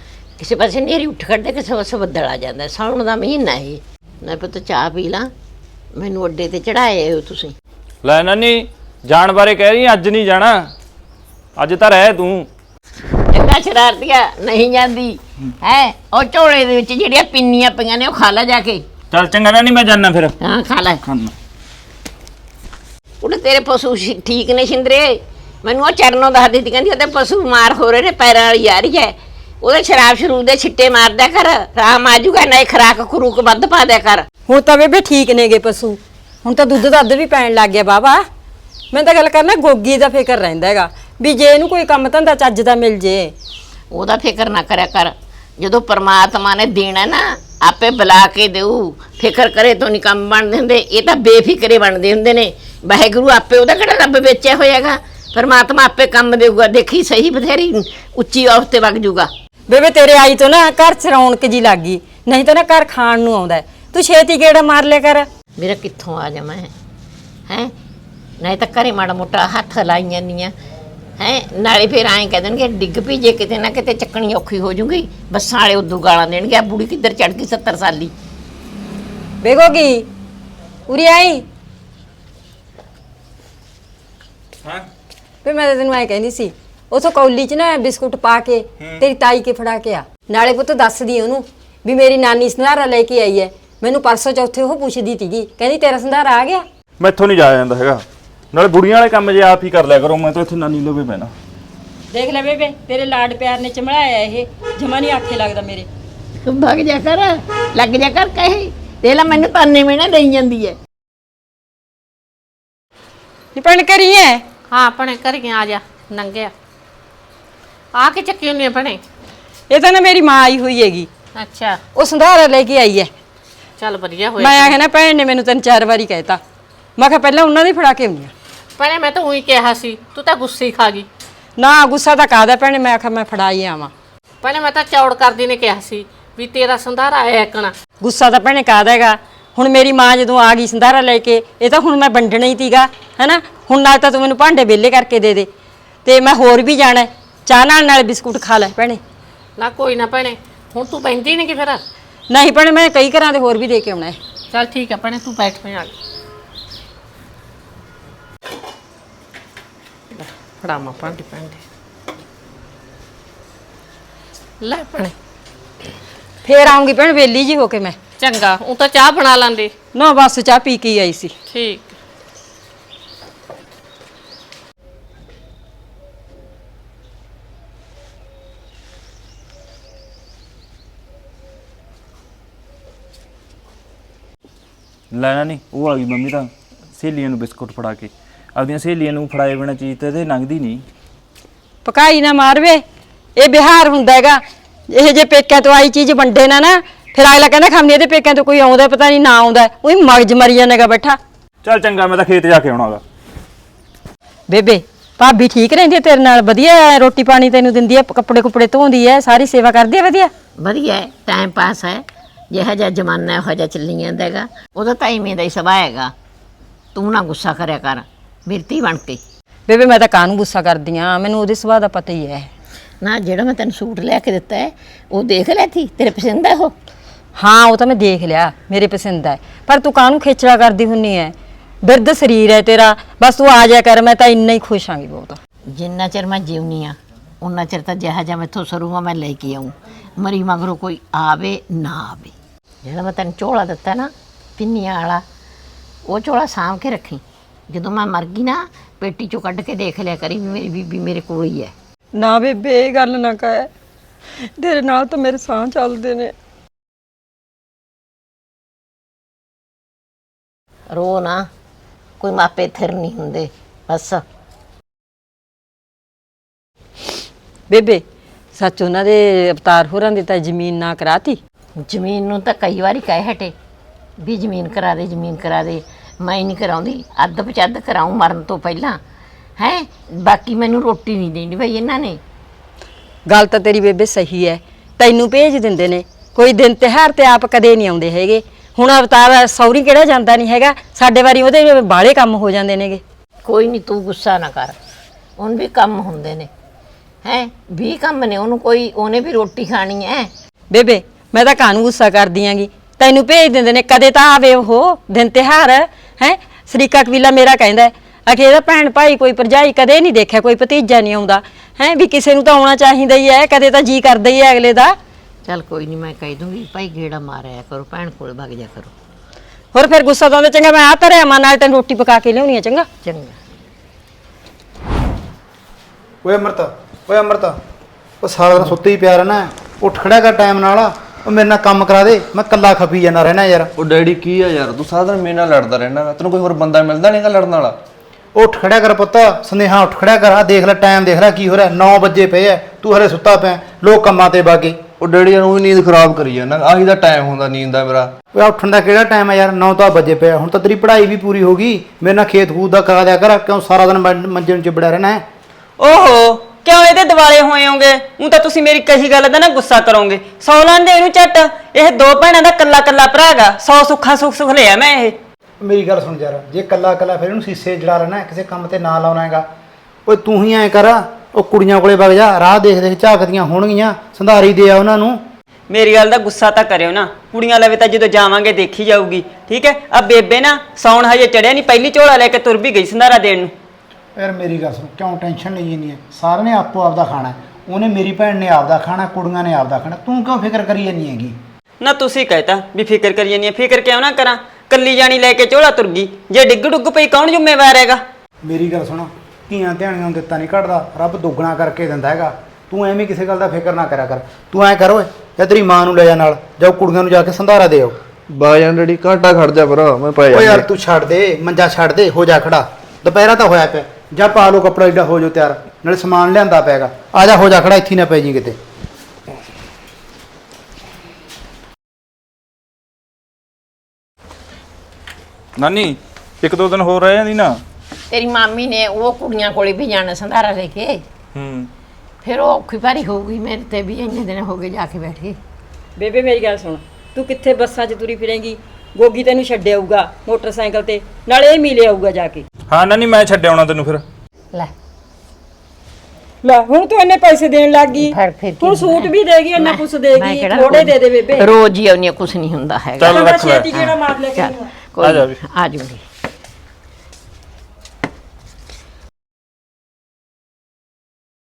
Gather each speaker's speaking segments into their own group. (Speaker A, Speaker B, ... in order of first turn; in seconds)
Speaker A: 0.4-5.3, 6.0-7.5, 13.3-18.8, 20.4-21.0, 23.2-34.3, 43.9-59.3, 65.6-66.7, 67.5-67.7, 68.4-70.5, 71.2-78.1, 106.5-110.8, 210.6-216.1, 216.9-219.2, 223.0-226.7, 235.7-242.3, 242.8-245.2, 246.1-251.7, 260.9-261.5, 262.2-264.2, 271.8-273.6, 274.2-279.0, 279.6-282.2, 293.4-294.8, 295.4-296.5, 297.2-300.3, 315.5-318.9, 323.0-323.4, 428.1-431.0, 432.2-435.4, 448.0-453.2, 454.4-456.1
Speaker B: 8.0-10.7, 11.6-12.5, 19.1-20.4, 21.1-21.3, 97.0-101.3, 185.1-190.8, 201.6-203.0, 425.6-427.6, 431.3-431.7, 442.7-444.0, 453.0-453.7, 455.0-455.4
Speaker C: 34.5-38.2, 38.9-43.3, 59.7-65.3, 79.4-80.1, 80.9-81.5, 85.4-96.7, 102.1-105.9, 113.5-114.4, 119.7-121.1, 122.0-123.1, 124.4-126.4, 127.0-128.3, 131.6-133.9, 138.0-145.5, 146.1-149.0, 152.3-154.2, 166.4-168.0, 169.9-171.3, 191.8-192.8, 193.4-201.2, 204.5-210.3, 219.7-222.5, 227.4-235.4, 252.2-253.7, 254.4-256.3, 267.7-268.0, 268.5-271.4, 283.3-293.0, 300.7-315.0, 319.7-322.9, 436.0-442.4, 446.4-451.5, 453.1-454.7
Speaker D: 114.7-116.5, 118.0-119.0, 121.4-121.8, 123.8-124.8, 128.8-131.1, 134.4-137.7, 149.6-151.8, 154.5-155.9, 160.1-161.6, 164.6-165.2, 168.2-169.7, 171.5-171.9
Speaker E: 326.2-327.6, 328.2-333.7, 338.4-344.8, 348.4-355.2, 365.6-369.5, 370.1-375.2, 384.2-391.4, 398.4-408.0, 410.3-418.6
Speaker F: 333.8-337.8, 345.0-348.1, 408.3-410.7
Speaker G: 355.8-365.2, 375.7-383.5, 391.8-398.0